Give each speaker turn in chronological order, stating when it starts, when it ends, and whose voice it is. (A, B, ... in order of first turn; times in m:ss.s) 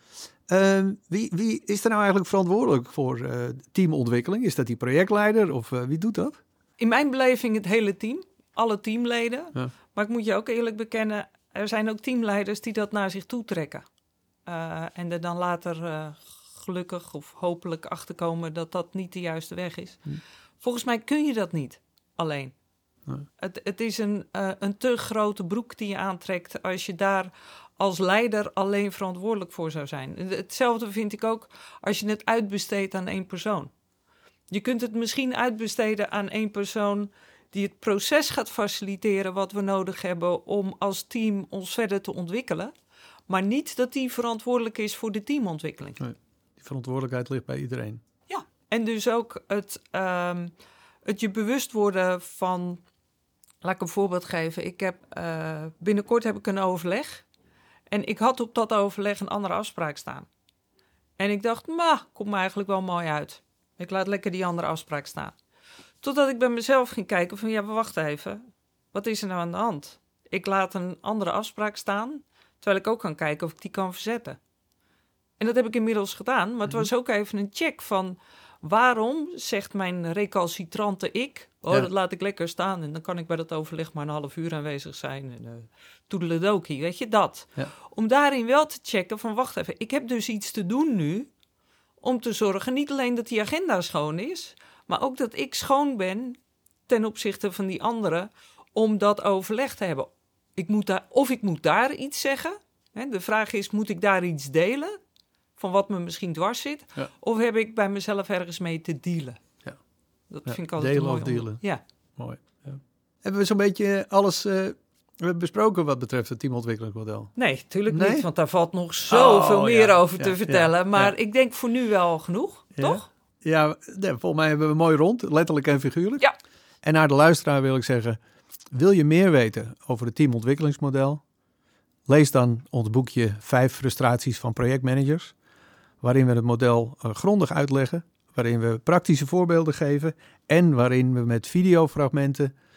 0:00.5-0:06.4 A
0:06.8-0:13.8 B
0:14.4-0:22.5 B
0:23.4-0:33.7 B
0:34.5-0:42.7 B
0:43.3-0:46.0 B
0:46.0-0:48.0 A
0:48.3-0:50.5 B
0:51.0-0:52.8 B
0:53.6-0:57.2 B
0:57.9-1:00.3 B
1:01.2-1:05.4 B
1:06.0-1:14.4 B
1:15.4-1:31.3 B
1:32.0-1:44.9 B
1:45.6-1:49.4 B
1:50.3-1:51.8 B
1:50.4-1:51.6 A
1:52.2-1:57.3 A
1:57.4-2:03.1 B
1:57.9-1:58.3 A
1:59.1-2:01.1 A
2:02.8-2:06.3 A
2:06.8-2:08.2 A
2:08.7-2:11.2 A
2:12.1-2:15.3 A
2:16.0-2:22.5 A